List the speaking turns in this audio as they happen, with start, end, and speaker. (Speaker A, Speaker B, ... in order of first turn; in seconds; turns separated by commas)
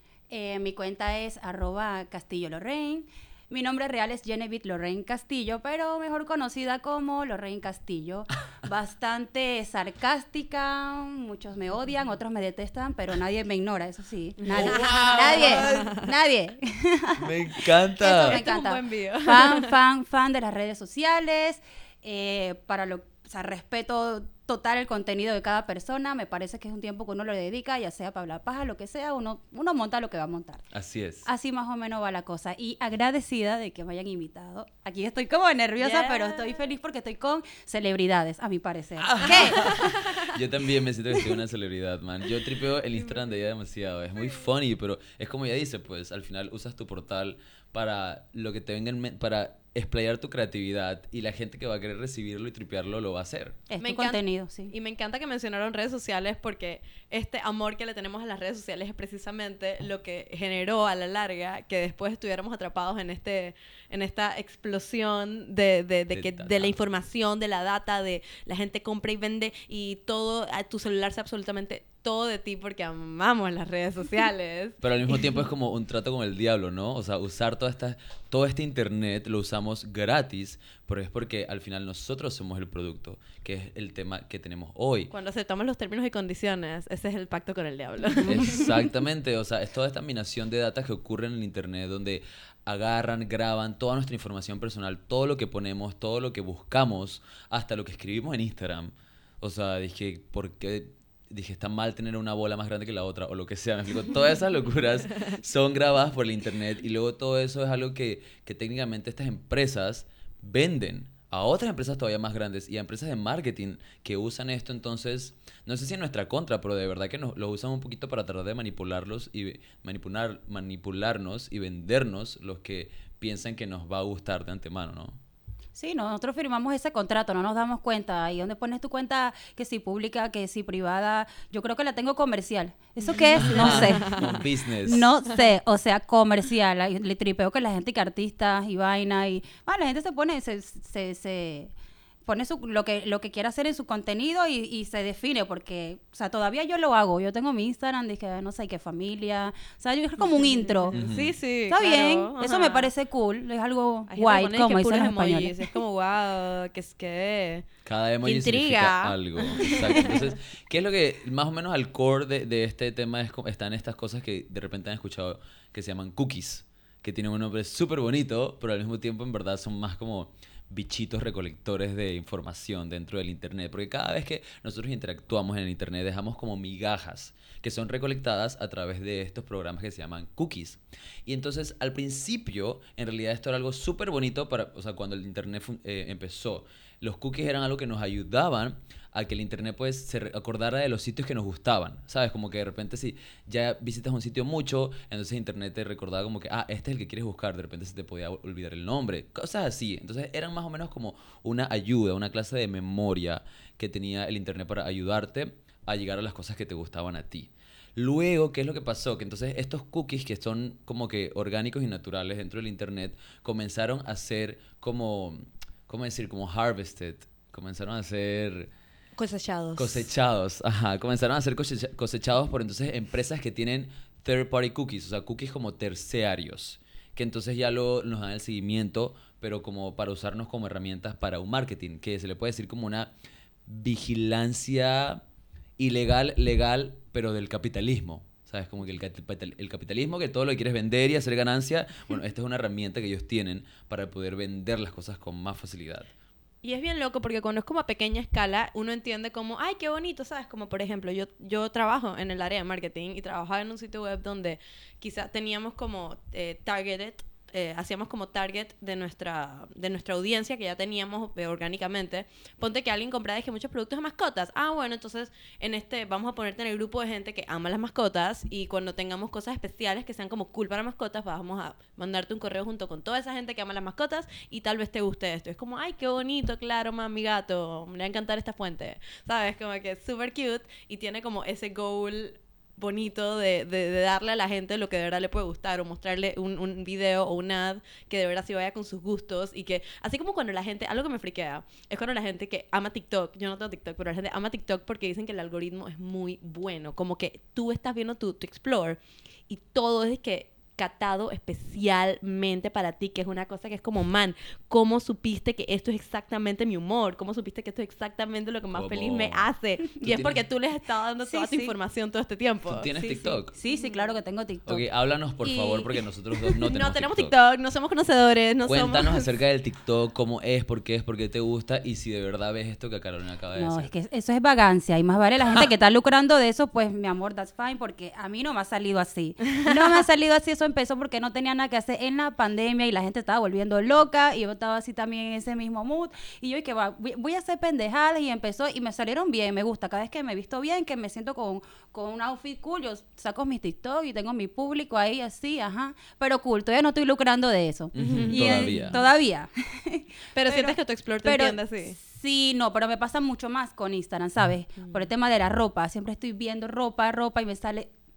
Speaker A: 0.3-17.3, Speaker B: 14.4-16.1, Speaker C: 14.5-16.0, Speaker C: 17.2-18.4, Speaker A: 18.0-30.6, Speaker B: 18.1-19.7, Speaker C: 30.7-31.3, Speaker A: 31.2-39.6, Speaker B: 35.8-36.7, Speaker C: 39.0-53.6, Speaker B: 39.3-40.3, Speaker A: 53.7-54.7, Speaker B: 53.8-75.2, Speaker C: 66.1-66.8, Speaker C: 74.8-85.1, Speaker B: 85.1-88.7, Speaker C: 88.2-125.2, Speaker A: 125.8-141.7, Speaker B: 133.1-134.4, Speaker C: 133.4-135.1, Speaker A: 142.3-151.0, Speaker B: 150.4-152.9, Speaker C: 150.9-151.3, Speaker A: 151.7-155.7, Speaker B: 154.1-157.7, Speaker C: 157.8-218.7, Speaker B: 158.2-160.4, Speaker B: 219.2-220.1, Speaker C: 219.8-233.1, Speaker C: 233.7-235.2, Speaker C: 235.8-246.1, Speaker B: 246.6-312.9, Speaker C: 308.7-309.5, Speaker C: 310.0-310.4, Speaker A: 311.2-311.7, Speaker C: 312.6-313.5, Speaker A: 312.9-314.8, Speaker B: 313.7-314.1, Speaker C: 314.7-317.3, Speaker A: 315.4-315.9, Speaker B: 316.5-319.3, Speaker C: 318.6-323.9, Speaker A: 323.6-357.9, Speaker B: 329.6-330.0, Speaker C: 347.9-349.0, Speaker B: 348.0-349.1, Speaker B: 350.4-352.0, Speaker B: 354.8-355.1